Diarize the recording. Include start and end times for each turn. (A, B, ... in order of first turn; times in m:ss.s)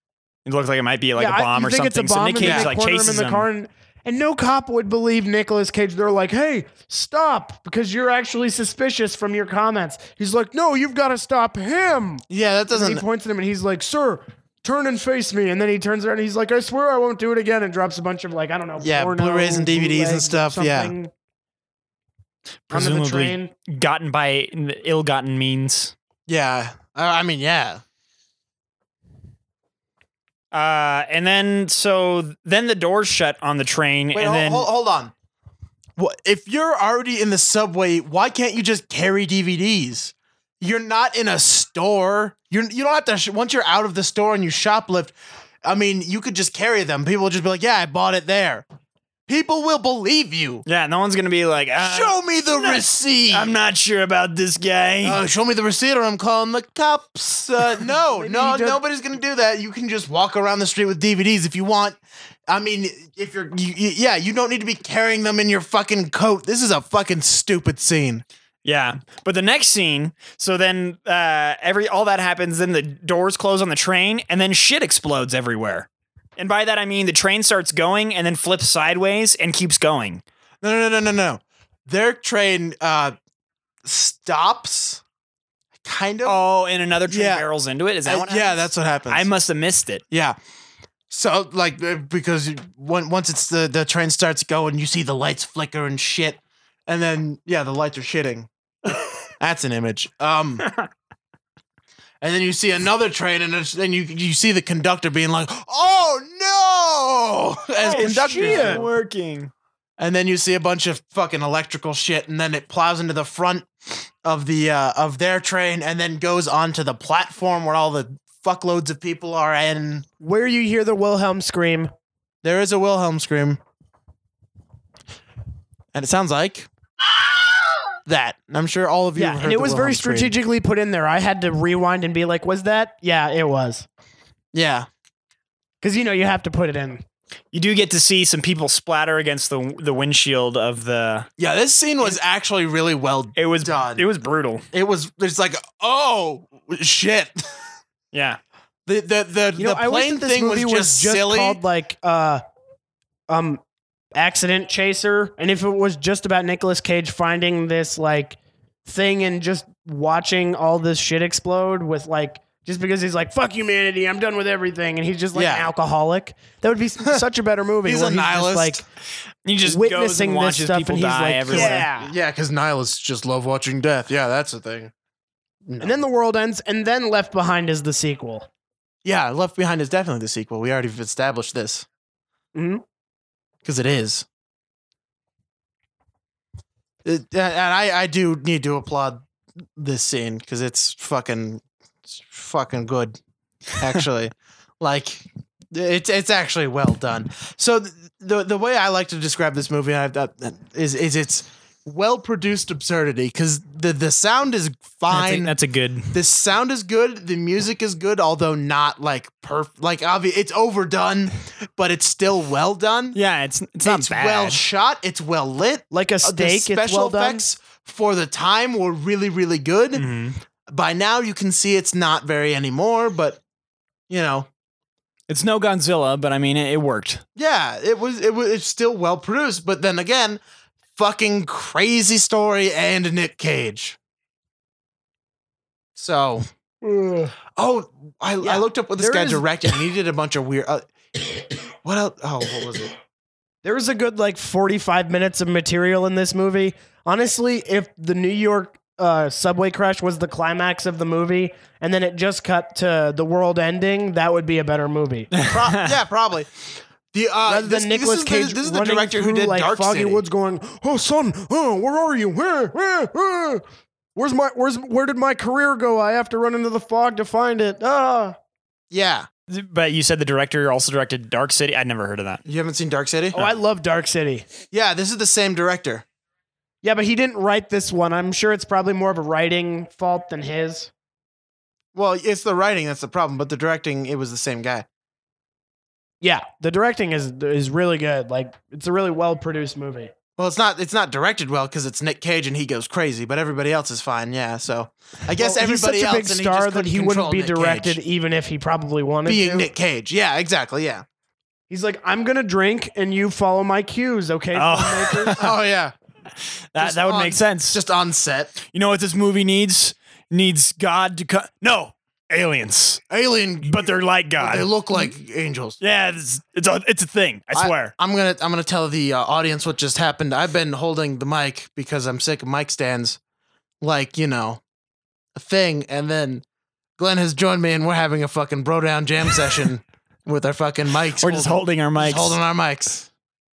0:00.4-0:03.5 A
0:01.2-0:21.1 B
0:02.4-0:02.7 C
0:12.3-0:13.0 C
0:18.8-0:20.9 C
0:22.7-0:25.9 A
0:22.7-0:23.5 B
0:26.3-0:27.8 C
0:30.5-0:34.7 A
0:34.1-0:35.1 C
0:36.0-0:48.6 C
0:49.3-0:50.6 C
0:50.7-0:55.2 A
0:51.8-0:53.5 C
0:55.0-1:08.2 C
0:57.9-0:58.8 B
1:08.6-1:20.2 A
1:20.6-1:23.2 C
1:23.8-1:25.0 C
1:25.8-1:26.4 C
1:26.2-1:30.0 A
1:27.1-1:27.4 C
1:28.0-1:29.3 C
1:30.1-1:30.4 C
1:31.1-1:38.5 C
1:39.4-1:40.6 C
1:42.2-1:48.8 C
1:47.8-1:49.5 A
1:47.9-1:48.8 B
1:50.0-2:00.1 C
2:00.2-2:01.9 B
2:02.4-2:03.6 C
2:05.9-2:06.7 C
2:08.1-2:10.4 C
2:09.2-2:13.9 B
2:14.5-2:14.9 C
2:15.8-2:17.0 B
2:17.5-2:21.3 A
2:21.4-2:24.0 C
2:23.4-2:24.7 A
2:24.7-2:27.5 C
2:28.1-2:28.4 A
2:28.9-2:31.6 C
2:29.6-2:32.4 B
2:33.3-2:33.6 B
2:34.2-2:48.8 B
2:45.3-2:45.7 C
2:47.8-2:48.8 C
2:49.4-2:51.9 A
2:49.6-2:52.1 B
2:51.5-2:54.9 C
2:55.7-2:56.0 C
2:55.8-2:58.5 B
2:59.0-3:01.9 C
3:02.5-3:02.8 B
3:03.6-3:04.3 C
3:07.0-3:09.2 C
3:09.8-3:13.2 C
3:13.8-3:25.6 C
3:25.1-3:26.2 A
3:26.1-3:33.2 C
3:33.1-3:34.7 A
3:33.8-3:40.0 C
3:35.9-3:37.4 B
3:40.0-3:40.4 A
3:40.7-3:43.4 C
3:44.1-3:44.5 C
3:45.3-3:47.2 A
3:47.4-3:50.4 C
3:51.0-3:54.0 C
3:56.0-3:56.5 C
3:56.8-3:57.4 B
3:57.5-4:00.9 C
3:58.4-3:59.6 B
4:01.8-4:03.0 C
4:03.6-4:15.3 B
4:15.4-4:15.9 A
4:15.4-4:20.2 C
4:17.5-4:23.6 B
4:24.2-4:28.4 B
4:28.9-4:29.3 C
4:29.5-4:32.4 A
4:32.4-4:33.4 C
4:33.4-4:34.5 B
4:34.7-4:36.0 C
4:36.8-4:40.9 B
4:42.0-4:44.9 C
4:46.2-4:50.1 B
4:50.4-4:58.0 C
4:55.4-4:59.7 B
4:59.3-5:01.0 C
5:01.7-5:05.4 B
5:04.5-5:05.5 A
5:05.4-5:05.9 C
5:06.7-5:07.8 A
5:06.8-5:08.6 C
5:08.6-5:13.0 A
5:13.1-5:15.8 C
5:13.6-5:14.7 A
5:15.8-5:17.9 A
5:17.5-5:23.2 C
5:23.8-5:24.6 C
5:25.4-5:26.4 C
5:27.0-5:33.1 C
5:31.2-5:32.4 A